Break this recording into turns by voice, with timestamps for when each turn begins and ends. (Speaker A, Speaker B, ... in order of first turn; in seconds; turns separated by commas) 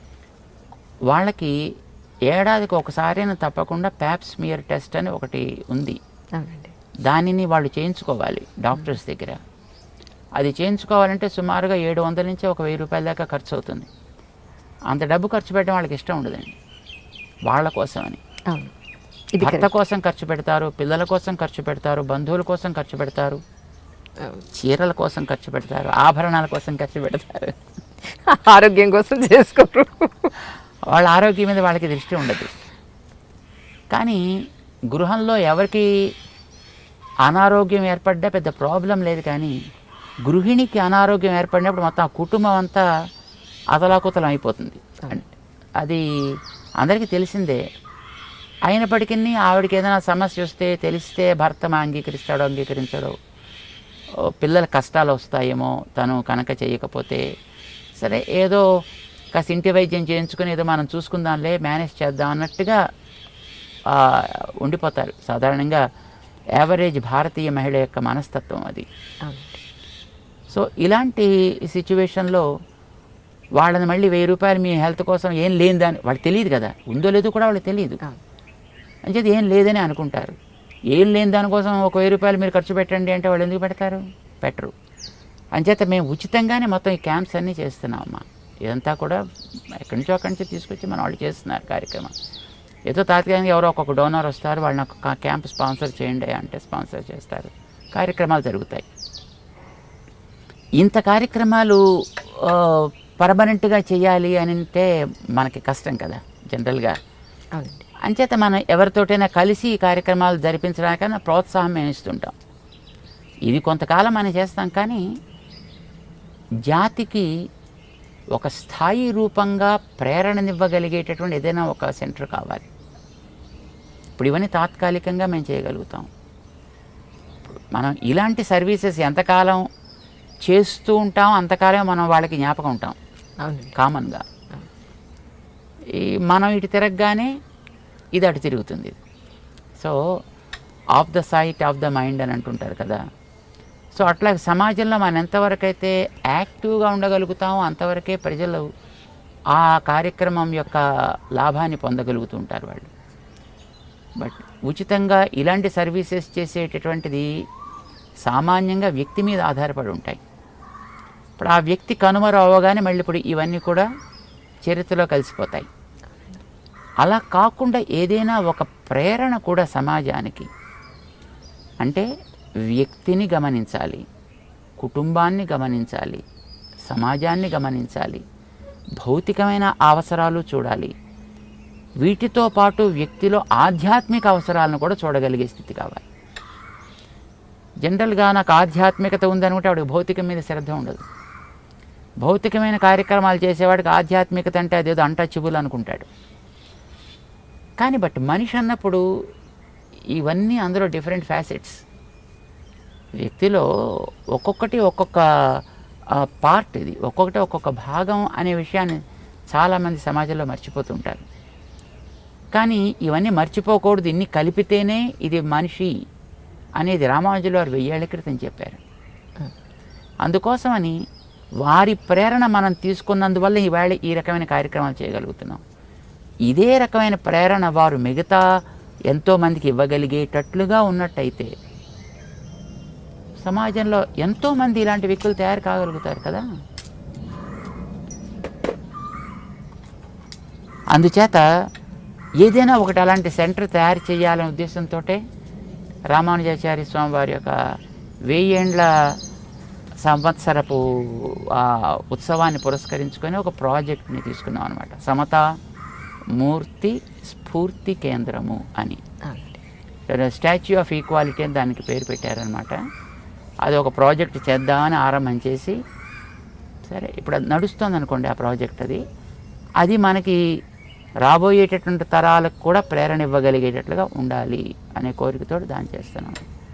Speaker A: 1.1-1.5, Speaker A: 2.3-6.0, Speaker B: 6.3-6.7, Speaker A: 7.0-9.4, Speaker A: 10.4-13.9, Speaker A: 14.9-16.6, Speaker A: 17.5-18.2, Speaker B: 18.5-18.7, Speaker B: 19.3-19.7, Speaker A: 19.4-23.4, Speaker A: 24.5-27.6, Speaker B: 28.0-30.3, Speaker A: 30.9-32.5, Speaker A: 33.9-34.2, Speaker A: 34.9-35.9, Speaker A: 37.2-39.5, Speaker A: 40.2-42.8, Speaker A: 43.7-45.3, Speaker A: 46.8-47.6, Speaker A: 48.7-53.1, Speaker A: 54.3-57.2, Speaker A: 58.0-58.6, Speaker A: 59.3-62.8, Speaker A: 63.9-65.8, Speaker A: 66.6-68.8, Speaker B: 69.2-69.6, Speaker A: 70.5-72.4, Speaker A: 73.6-78.0, Speaker A: 79.0-80.3, Speaker A: 80.9-84.7, Speaker A: 85.5-89.2, Speaker A: 89.7-92.1, Speaker A: 92.9-98.8, Speaker A: 100.8-107.0, Speaker B: 107.5-107.8, Speaker A: 108.0-112.3, Speaker A: 113.5-115.0, Speaker A: 116.7-117.3, Speaker A: 118.3-122.7, Speaker A: 124.2-126.1, Speaker A: 127.7-129.6, Speaker A: 130.4-132.9, Speaker B: 133.4-133.7, Speaker A: 133.8-134.2, Speaker A: 135.9-137.3, Speaker A: 138.2-138.9, Speaker A: 140.9-143.0, Speaker A: 143.9-148.7, Speaker A: 149.5-152.9, Speaker A: 154.2-157.3, Speaker A: 158.2-160.2, Speaker A: 161.4-163.8, Speaker A: 164.7-165.7, Speaker A: 167.0-170.5, Speaker A: 172.7-174.0, Speaker A: 174.8-176.2, Speaker A: 176.9-178.2, Speaker A: 179.0-180.9, Speaker A: 182.0-186.0, Speaker A: 187.8-191.0, Speaker A: 192.2-196.1, Speaker A: 197.8-199.0, Speaker A: 200.1-201.8, Speaker A: 203.2-203.6, Speaker A: 204.3-205.2, Speaker A: 206.2-209.0, Speaker A: 209.5-211.2, Speaker A: 212.5-215.9, Speaker A: 216.8-218.8, Speaker A: 220.2-220.9, Speaker A: 221.6-225.6, Speaker A: 226.5-228.4, Speaker A: 229.1-231.5, Speaker A: 233.4-236.4, Speaker A: 240.9-241.4, Speaker A: 242.4-245.2, Speaker A: 246.1-247.6, Speaker A: 248.3-248.9, Speaker A: 250.0-255.4, Speaker A: 256.4-259.0, Speaker B: 259.2-259.6, Speaker A: 260.1-262.8, Speaker A: 263.6-265.8, Speaker A: 266.8-269.0, Speaker A: 269.8-270.4, Speaker A: 271.2-276.4